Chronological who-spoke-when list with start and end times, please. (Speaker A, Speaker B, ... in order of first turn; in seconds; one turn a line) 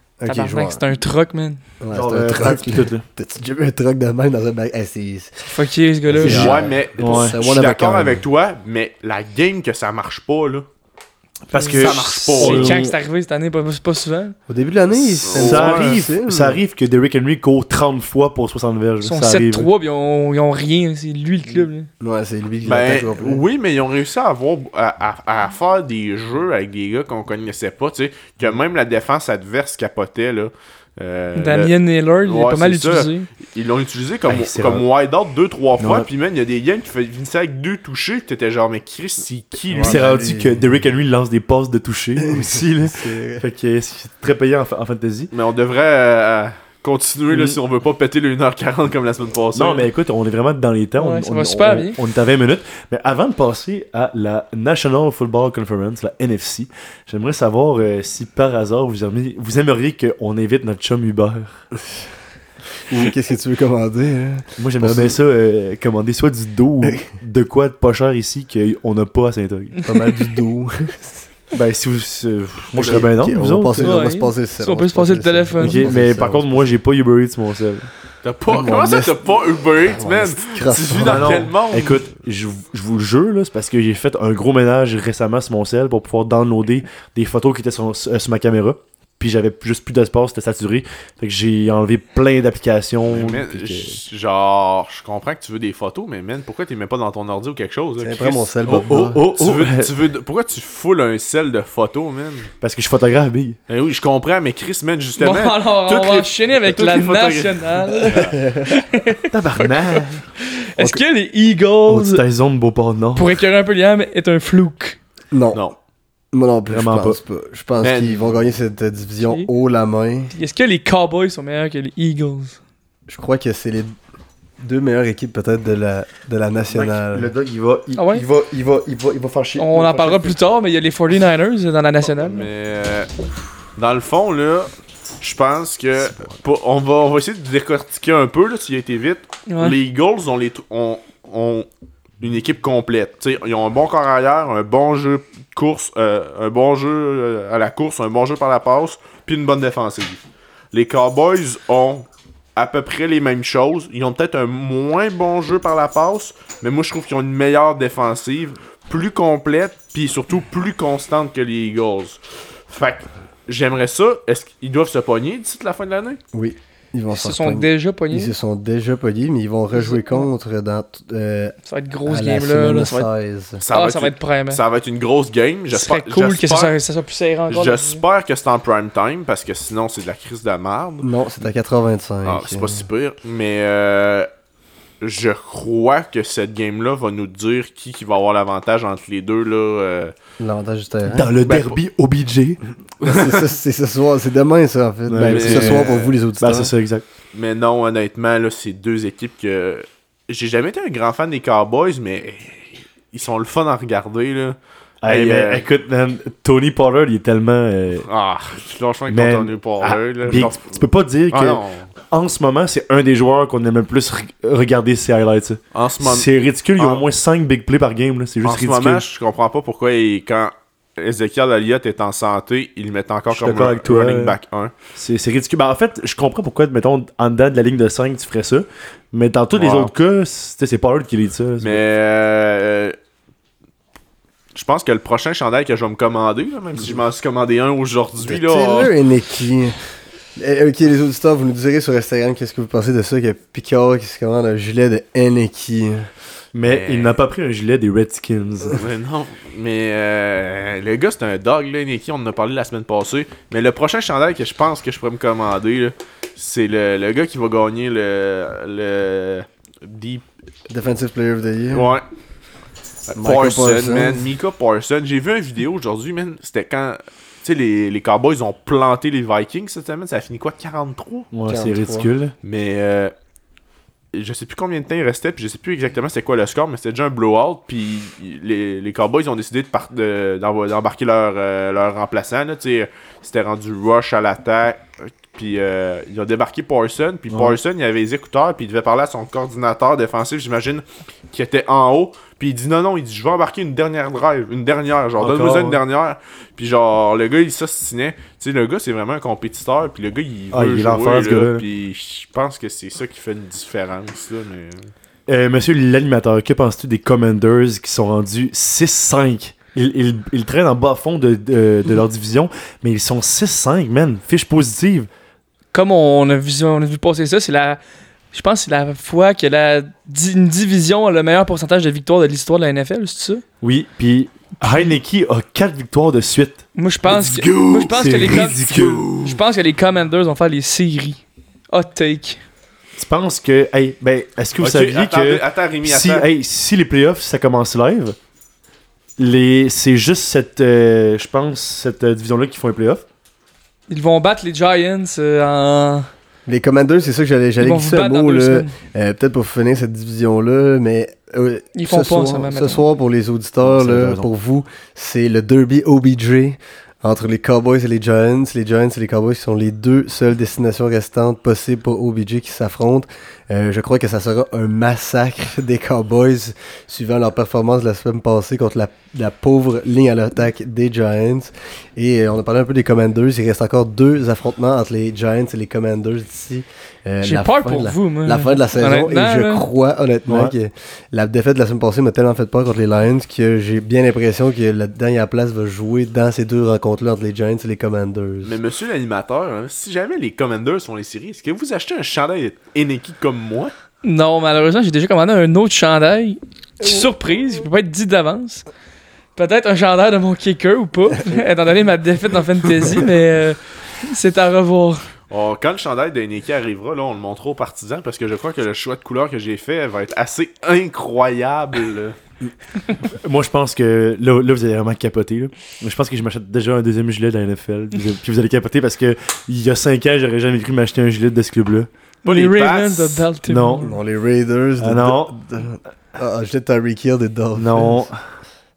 Speaker A: 0.2-0.8
Speaker B: 0.3-1.6
Speaker A: 1.8-5.5
Speaker C: 1.9-3.0
Speaker B: 5.5-6.6
Speaker A: 6.1-8.2
Speaker D: 6.2-10.7
Speaker C: 6.2-7.4
Speaker C: 11.5-13.0
Speaker B: 11.5-14.3
Speaker D: 11.8-12.8
Speaker A: 14.5-16.6
Speaker C: 14.9-19.7
Speaker D: 15.2-16.0
Speaker B: 19.0-21.9
Speaker A: 22.0-23.4
Speaker D: 22.6-31.7
Speaker B: 31.4-33.3
Speaker D: 32.2-40.0
Speaker C: 34.3-34.9
Speaker C: 35.8-36.1
Speaker A: 39.7-40.7
Speaker C: 39.7-45.3
Speaker A: 42.2-43.5
Speaker D: 45.3-49.9
Speaker C: 47.3-47.6
Speaker C: 49.5-61.6
Speaker B: 51.0-52.0
Speaker A: 62.9-65.2
Speaker C: 64.6-69.8
Speaker A: 69.8-71.2
Speaker C: 71.5-74.0
Speaker A: 72.8-76.7
Speaker D: 72.8-73.0
Speaker B: 73.8-75.9
Speaker C: 75.6-77.9
Speaker D: 78.2-82.0
Speaker A: 78.5-79.2
Speaker A: 79.8-81.5
Speaker C: 81.0-94.0
Speaker D: 93.1-102.5
Speaker A: 98.0-99.2
Speaker C: 98.7-99.9
Speaker C: 102.6-103.6
Speaker D: 103.7-108.4
Speaker B: 105.2-112.2
Speaker A: 108.1-108.8
Speaker C: 109.3-110.2
Speaker C: 111.9-113.4
Speaker B: 113.2-115.0
Speaker A: 115.3-115.6
Speaker A: 116.3-120.3
Speaker C: 116.7-117.2
Speaker D: 117.8-118.3
Speaker B: 119.2-119.5
Speaker B: 120.3-122.6
Speaker A: 123.1-123.9
Speaker A: 124.6-127.3
Speaker C: 126.7-130.4
Speaker B: 128.0-128.2
Speaker B: 129.6-132.5
Speaker D: 132.2-133.1
Speaker D: 133.8-141.7
Speaker B: 139.5-139.8
Speaker D: 142.2-150.2
Speaker D: 150.7-166.2
Speaker A: 166.3-171.6
Speaker B: 167.1-168.3
Speaker B: 169.7-170.3
Speaker B: 171.7-173.1
Speaker A: 172.1-173.6
Speaker D: 173.6-176.7
Speaker B: 173.7-174.6
Speaker B: 175.7-178.0
Speaker D: 177.5-181.1
Speaker A: 181.0-182.9
Speaker D: 182.2-184.3
Speaker D: 185.0-190.1
Speaker A: 190.4-191.3
Speaker C: 191.1-192.6
Speaker D: 191.4-191.8
Speaker D: 193.0-193.5
Speaker A: 193.0-196.7
Speaker C: 195.1-197.1
Speaker D: 195.2-196.2
Speaker D: 197.3-205.7
Speaker C: 205.0-208.1
Speaker D: 208.1-210.8
Speaker C: 209.1-219.0
Speaker D: 211.3-211.9
Speaker D: 215.7-217.1
Speaker D: 218.4-224.7
Speaker C: 223.3-224.4
Speaker C: 224.9-231.8
Speaker D: 229.5-229.9
Speaker D: 231.6-233.0
Speaker D: 234.5-238.9
Speaker A: 238.2-239.8
Speaker A: 240.4-246.1
Speaker C: 246.5-248.8
Speaker D: 246.7-247.1
Speaker D: 248.7-260.2
Speaker A: 260.7-261.9
Speaker D: 261.7-262.1
Speaker D: 263.1-271.3
Speaker A: 263.2-264.3
Speaker C: 271.3-272.3
Speaker A: 271.5-272.1
Speaker D: 272.4-273.1
Speaker D: 274.1-304.9
Speaker C: 287.3-287.6
Speaker C: 295.2-295.8
Speaker C: 300.5-301.6
Speaker C: 305.3-315.1
Speaker B: 315.7-317.8
Speaker B: 318.3-323.4
Speaker C: 323.6-329.4
Speaker B: 326.8-331.2
Speaker B: 331.7-332.4
Speaker C: 333.0-338.2
Speaker D: 334.6-336.3
Speaker C: 339.2-343.0
Speaker B: 343.9-346.1
Speaker A: 346.5-388.6
Speaker B: 347.6-348.7
Speaker B: 351.8-352.8
Speaker C: 353.6-354.3
Speaker B: 377.2-379.7
Speaker C: 380.3-380.5
Speaker D: 388.4-393.7
Speaker B: 394.0-398.6
Speaker A: 396.8-397.1
Speaker B: 399.4-405.0
Speaker D: 405.3-412.2
Speaker C: 413.0-421.9
Speaker D: 422.2-423.3
Speaker B: 422.2-423.9
Speaker C: 423.5-423.9
Speaker A: 423.8-428.1
Speaker C: 424.8-425.4
Speaker C: 427.6-428.2